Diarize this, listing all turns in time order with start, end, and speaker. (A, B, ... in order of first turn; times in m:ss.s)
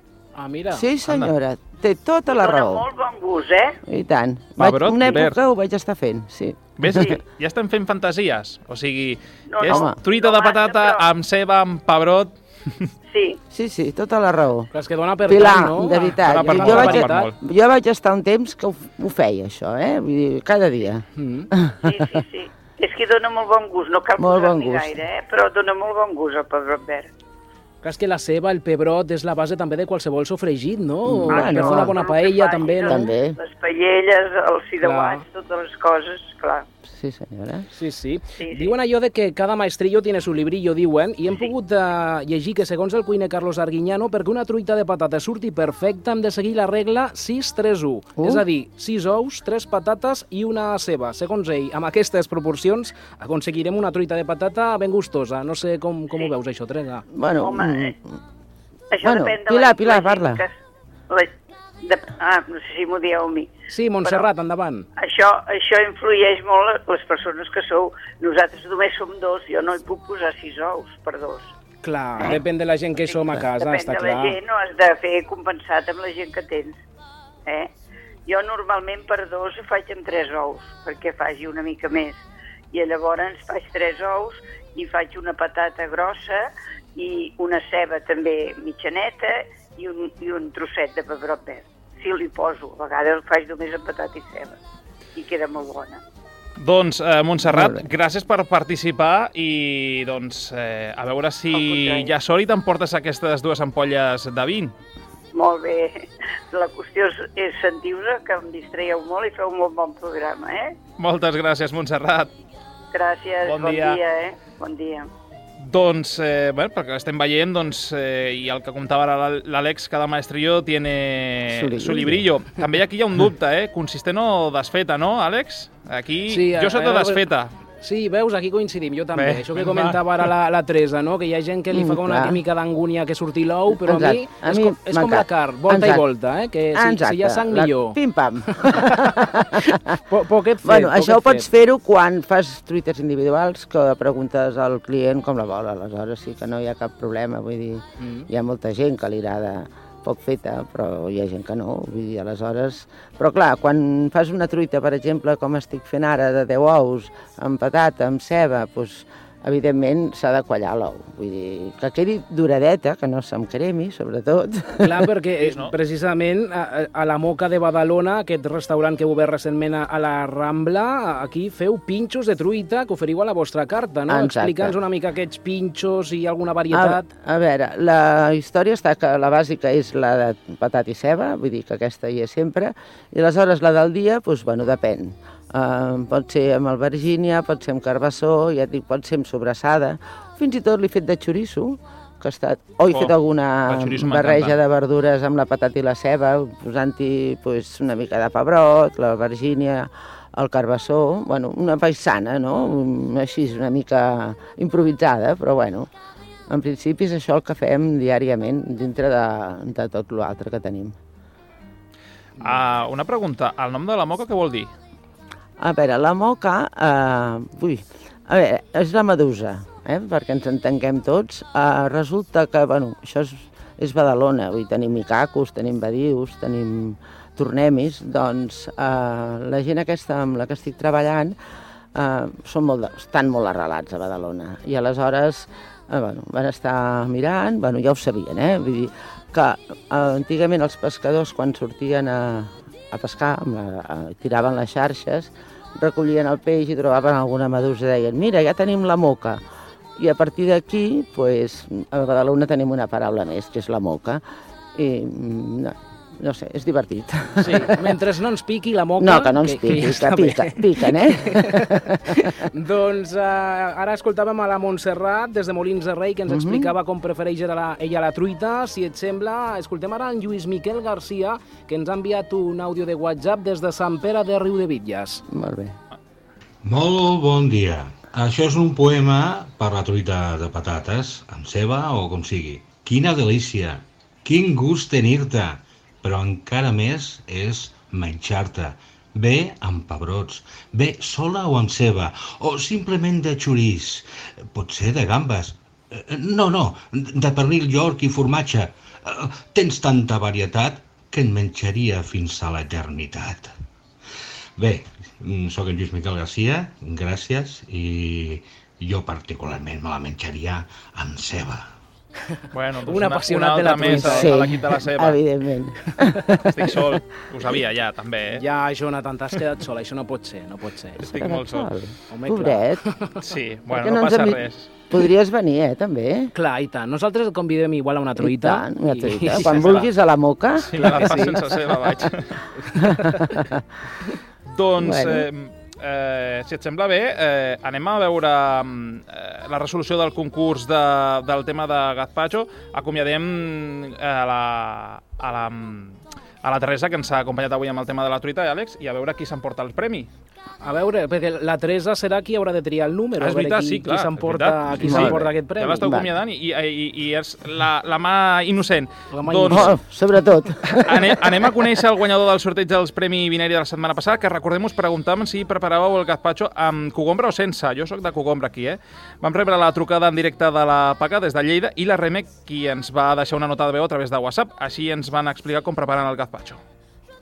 0:00.3-0:00.8 A
0:00.7-0:02.8 B
0:01.1-0:01.3 C
0:02.3-0:03.7 D
0:03.8-0:07.2 B
0:04.6-0:05.4 C
0:06.8-0:12.9 C
0:09.5-0:11.0 D
0:09.7-0:09.9 B
0:13.1-0:13.4 D
0:13.5-0:14.7 B
0:14.7-0:17.3 A
0:15.2-0:21.8 B
0:16.2-0:17.3 C
0:21.2-0:21.4 A
0:21.8-0:27.1 D
0:24.2-0:24.9 B
0:27.8-0:33.0 A
0:31.0-0:32.0 B
0:31.3-0:36.6 D
0:32.9-0:33.4 B
0:34.8-0:35.2 A
0:36.8-0:37.7 B
0:37.7-0:57.0 A
0:38.4-0:38.7 D
0:41.3-0:41.5 D
0:48.2-0:48.4 B
0:57.1-0:57.9 B
0:57.4-0:57.9 D
0:58.9-1:00.5 D
0:59.0-1:00.4 B
1:01.1-1:04.3 D
1:03.7-1:04.9 A
1:05.0-1:11.5 D
1:11.8-1:14.4 A
1:13.0-1:16.8 D
1:18.2-1:34.6 D
1:35.2-1:36.0 D
1:36.6-1:44.7 C
1:37.4-1:37.8 B
1:41.5-1:42.1 D
1:45.3-1:50.8 D
1:51.0-1:52.3 C
1:52.9-1:55.1 D
1:53.4-1:54.0 C
1:55.6-2:07.5 C
2:01.4-2:02.3 B
2:06.3-2:07.2 A
2:07.8-2:18.0 A
2:09.1-2:10.3 C
2:11.7-2:12.4 B
2:13.7-2:16.0 B
2:16.7-2:19.8 B
2:18.5-2:19.0 A
2:20.1-2:21.5 A
2:20.6-2:45.1 B
2:28.0-2:28.3 A
2:44.8-2:57.0 A
2:45.4-2:45.7 C
2:54.1-2:54.8 B
2:56.7-3:25.9 B
3:13.6-3:14.6 C
3:26.5-3:30.9 B
3:32.4-3:34.7 C
3:35.6-3:51.4 B
3:51.9-4:09.4 B
4:10.0-4:14.2 B
4:14.8-4:17.9 B
4:17.4-4:21.6 A
4:19.0-4:22.3 B
4:22.5-4:35.2 A
4:26.3-4:26.7 B
4:35.3-4:35.7 B
4:36.6-5:03.5 E
5:04.6-5:11.7 E
5:12.5-5:15.2 C
5:12.8-5:14.4 A
5:13.8-5:16.9 B
5:16.4-5:18.4 C
5:18.4-5:21.0 A
5:21.0-5:21.7 C
5:21.0-5:22.8 B
5:22.1-5:23.1 A
5:23.2-5:24.7 C
5:23.7-5:26.3 B
5:26.3-5:29.9 A
5:28.2-5:31.3 B
5:29.3-5:29.9 C
5:30.6-5:32.4 C
5:30.8-5:31.4 A
5:32.8-5:33.6 B
5:34.5-5:50.1 C
5:34.8-5:35.3 B
5:50.6-5:56.0 A
5:53.2-5:59.8 C
5:54.8-5:55.3 B
5:59.1-5:59.8 A
5:59.5-6:01.5 B
6:00.7-6:16.6 C